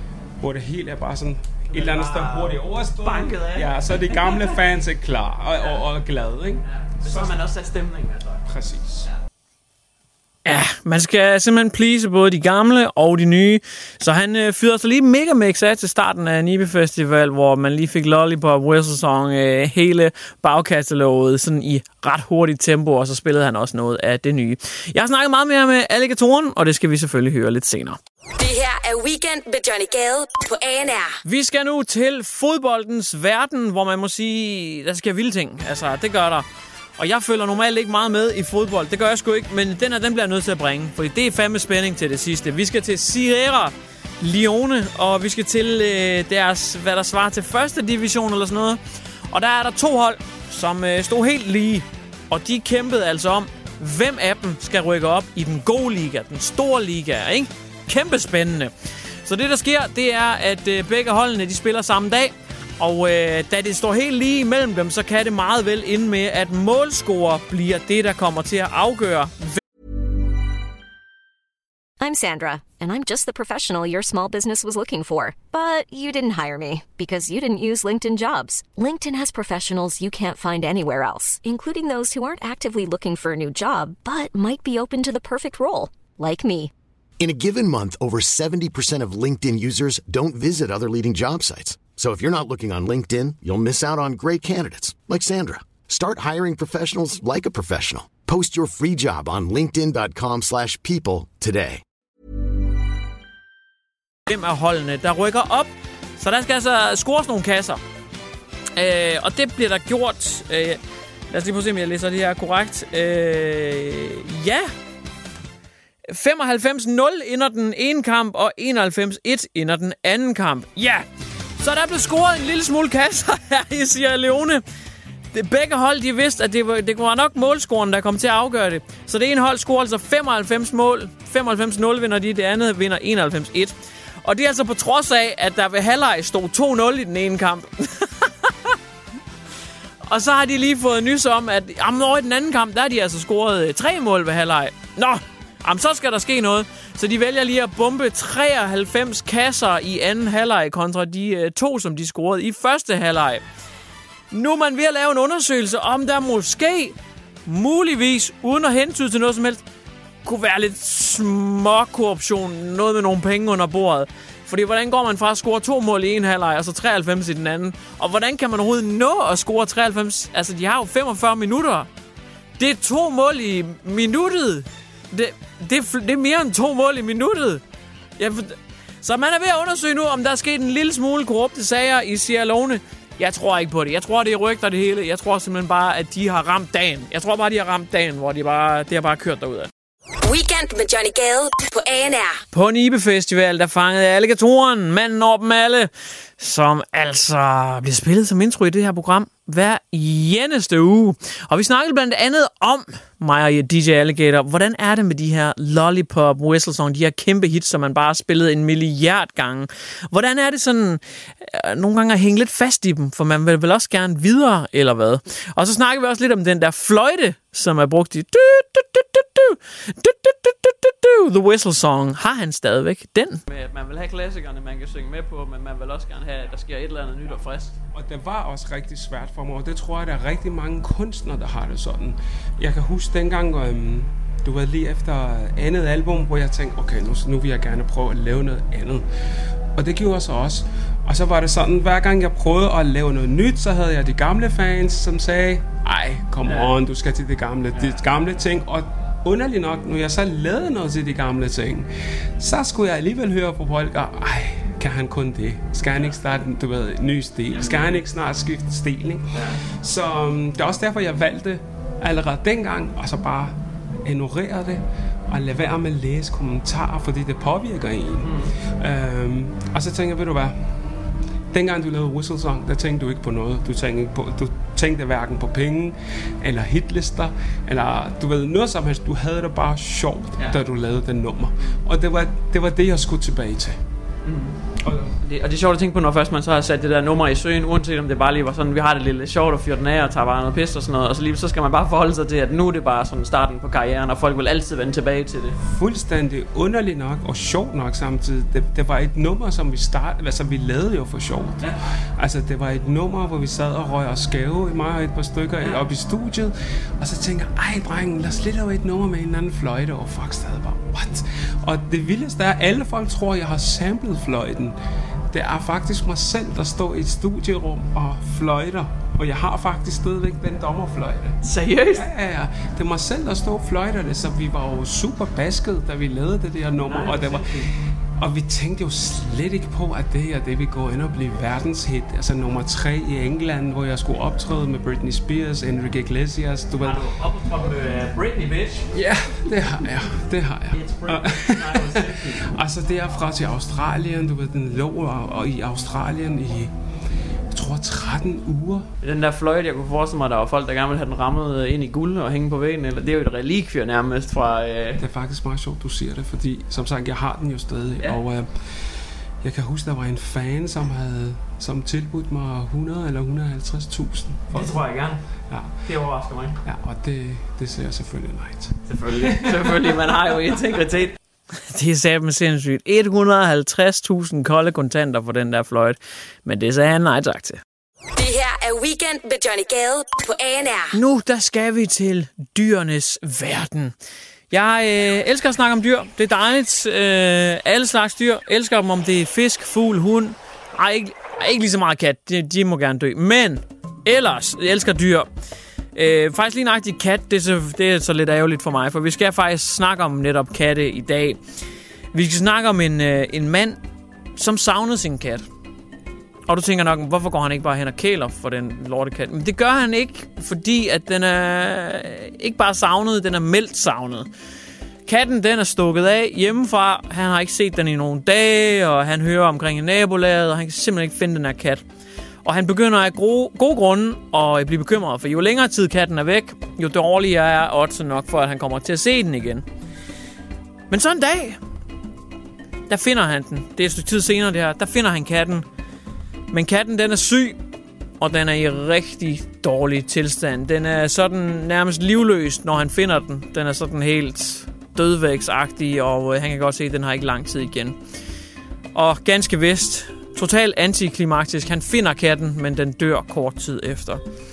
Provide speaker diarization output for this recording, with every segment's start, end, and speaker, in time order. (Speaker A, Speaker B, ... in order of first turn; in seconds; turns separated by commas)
Speaker A: 0.4-7.3, Speaker B: 1.7-4.6, Speaker B: 6.8-8.4, Speaker A: 8.4-9.1, Speaker C: 10.4-28.0, Speaker D: 28.4-31.2, Speaker C: 31.2-36.5, Speaker C: 37.0-48.8, Speaker C: 49.3-58.7, Speaker C: 59.2-69.5, Speaker E: 72.0-86.7, Speaker F: 87.2-101.8, Speaker C: 104.3-107.8, Speaker C: 108.8-110.8, Speaker C: 111.3-114.7, Speaker C: 116.1-121.0, Speaker C: 121.6-124.6, Speaker C: 125.3-138.8, Speaker C: 140.1-153.4, Speaker C: 154.3-156.9, Speaker C: 157.5-159.6, Speaker C: 160.2-171.9, Speaker C: 172.6-177.6, Speaker C: 178.2-189.7, Speaker D: 190.2-192.4, Speaker C: 192.5-223.4, Speaker B: 223.5-227.7, Speaker A: 227.9-239.1, Speaker A: 239.8-271.0, Speaker B: 246.4-246.8, Speaker B: 257.5-258.0, Speaker B: 259.4-259.6, Speaker B: 268.2-268.5, Speaker A: 271.5-283.8, Speaker B: 284.2-284.6, Speaker A: 284.8-285.1, Speaker B: 285.2-295.6, Speaker A: 295.6-314.8, Speaker A: 315.3-321.4, Speaker C: 321.4-322.0, Speaker A: 321.9-337.1, Speaker B: 326.8-327.7, Speaker B: 336.8-338.9, Speaker A: 338.9-346.8, Speaker B: 340.7-342.5, Speaker A: 347.5-348.9, Speaker B: 349.0-355.0, Speaker A: 355.0-364.8, Speaker B: 364.5-365.2, Speaker A: 365.5-365.9, Speaker B: 365.8-366.6, Speaker A: 366.6-370.0, Speaker B: 368.9-371.1, Speaker C: 371.5-377.6, Speaker D: 378.2-381.0, Speaker C: 380.9-383.9, Speaker C: 384.5-395.3, Speaker C: 395.9-401.4, Speaker C: 402.1-403.8, Speaker C: 404.4-405.4, Speaker C: 406.5-414.3, Speaker C: 415.1-421.8, Speaker C: 422.4-429.6, Speaker C: 430.9-431.6, Speaker C: 432.9-435.6, Speaker C: 436.5-437.6, Speaker C: 438.2-447.9, Speaker C: 448.9-454.2